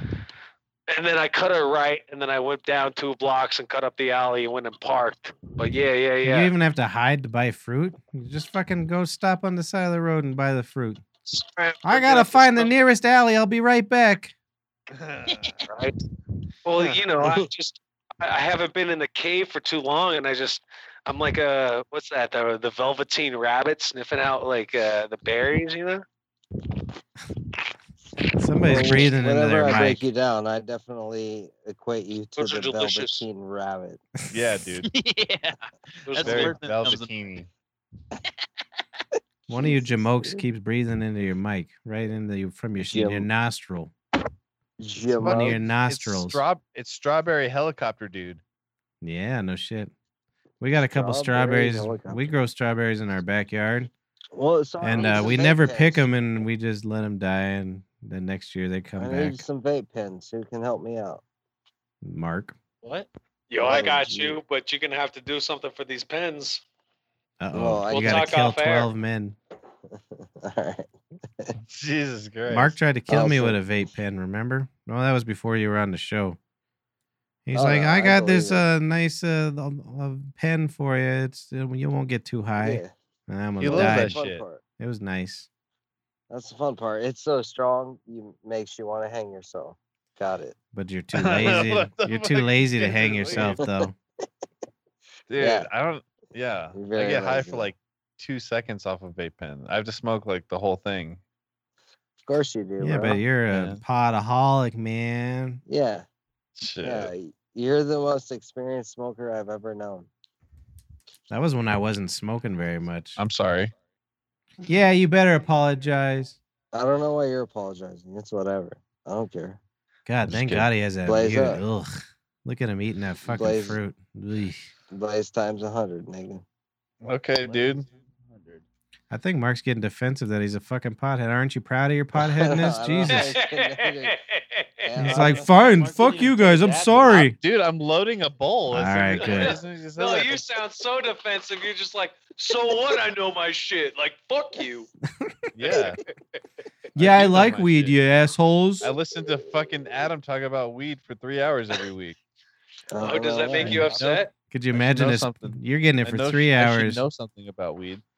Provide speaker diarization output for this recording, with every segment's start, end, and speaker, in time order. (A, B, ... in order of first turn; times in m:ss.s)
0:00.9-0:06.5 A
0:06.2-0:11.0 B
0:11.3-0:12.7 A
0:11.8-0:14.3 B
0:14.9-0:15.6 C
0:15.3-0:15.6 D
0:15.6-0:16.0 A
0:16.6-0:26.0 A
0:28.4-0:30.0 B
0:28.6-0:34.0 E
0:32.4-0:33.2 A
0:34.3-0:34.9 C
0:34.8-0:37.1 D
0:36.1-0:36.6 A
0:36.2-0:37.5 C
0:39.5-0:43.9 B
0:39.5-0:40.4 E
0:42.8-0:43.2 E
0:44.8-0:45.6 E
0:45.2-0:48.4 C
0:45.2-0:46.4 B
0:49.0-0:49.9 B
0:50.6-0:53.9 B
0:50.9-0:52.3 E
0:54.3-0:56.1 E
0:54.8-0:59.4 B
0:55.0-0:55.3 A
0:59.0-1:01.2 E
1:02.0-1:02.6 B
1:03.5-1:06.6 A
1:03.6-1:04.4 E
1:07.4-1:09.4 B
1:07.5-1:08.3 E
1:07.9-1:08.9 A
1:10.4-1:11.5 E
1:11.7-1:12.8 C
1:12.5-1:16.4 B
1:13.1-1:13.6 E
1:17.4-1:24.2 B
1:17.5-1:18.6 E
1:22.6-1:22.9 E
1:23.6-1:24.4 C
1:23.6-1:24.6 E
1:24.8-1:25.5 B
1:26.3-1:30.6 E
1:30.7-1:34.0 B
1:31.1-1:33.6 C
1:33.3-1:33.8 E
1:35.3-1:41.2 C
1:35.4-1:35.7 E
1:36.7-1:37.7 E
1:42.2-1:43.2 E
1:42.8-1:45.6 B
1:43.5-1:43.8 C
1:45.7-1:46.0 E
1:46.6-1:47.1 C
1:46.8-1:50.1 E
1:51.3-1:53.2 B
1:53.2-1:53.7 C
1:54.6-1:56.4 B
1:56.7-1:59.6 E
2:00.0-2:04.7 B
2:00.3-2:00.7 C
2:01.0-2:01.6 E
2:03.2-2:03.8 E
2:04.9-2:06.4 E
2:07.0-2:07.8 C
2:07.4-2:08.6 D
2:09.1-2:13.3 B
2:12.2-2:14.2 E
2:13.1-2:15.2 A
2:14.8-2:15.5 E
2:15.0-2:17.4 B
2:15.1-2:17.3 D
2:17.3-2:20.4 C
2:18.7-2:19.6 B
2:19.2-2:24.9 A
2:25.2-2:25.5 B
2:25.5-2:26.0 C
2:27.0-2:28.0 C
2:27.0-2:28.9 B
2:28.8-2:32.2 C
2:32.9-2:33.9 E
2:33.0-2:34.3 A
2:33.6-2:38.0 C
2:34.5-2:37.0 B